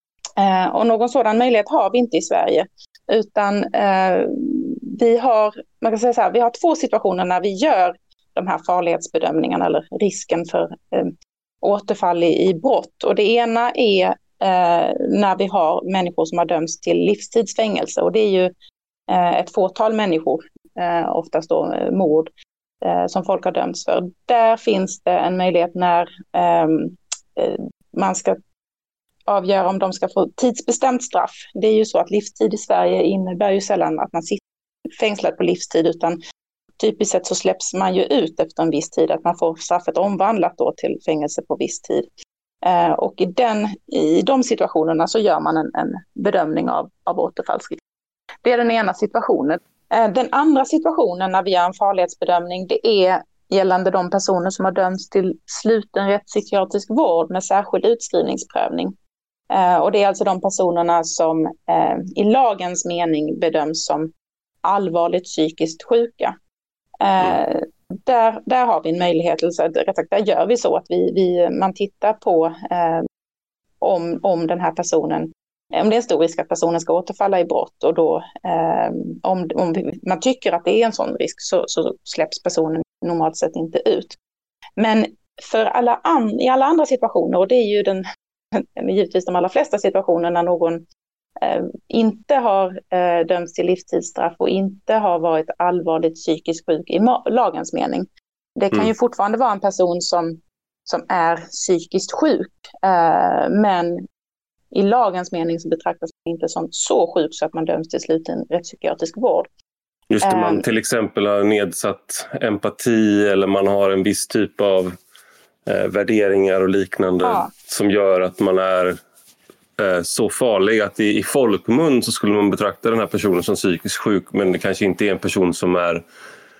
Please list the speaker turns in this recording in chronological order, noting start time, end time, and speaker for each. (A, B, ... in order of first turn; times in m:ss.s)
0:00.4-0:18.5 A
0:19.1-0:22.3 A
0:22.8-0:28.4 A
0:29.3-0:34.4 A
0:35.0-0:36.2 A
0:36.8-0:42.1 A
0:42.6-0:47.8 A
0:48.4-0:58.9 A
0:59.5-1:04.1 A
1:04.6-1:06.4 A
1:07.0-1:13.1 A
1:13.8-1:24.2 A
1:24.8-1:30.8 A
1:31.4-1:44.0 A
1:44.7-1:49.5 A
1:50.1-1:55.0 B
1:50.2-1:50.6 A
1:55.6-1:59.0 B
1:57.2-1:57.5 A
1:59.8-2:06.0 B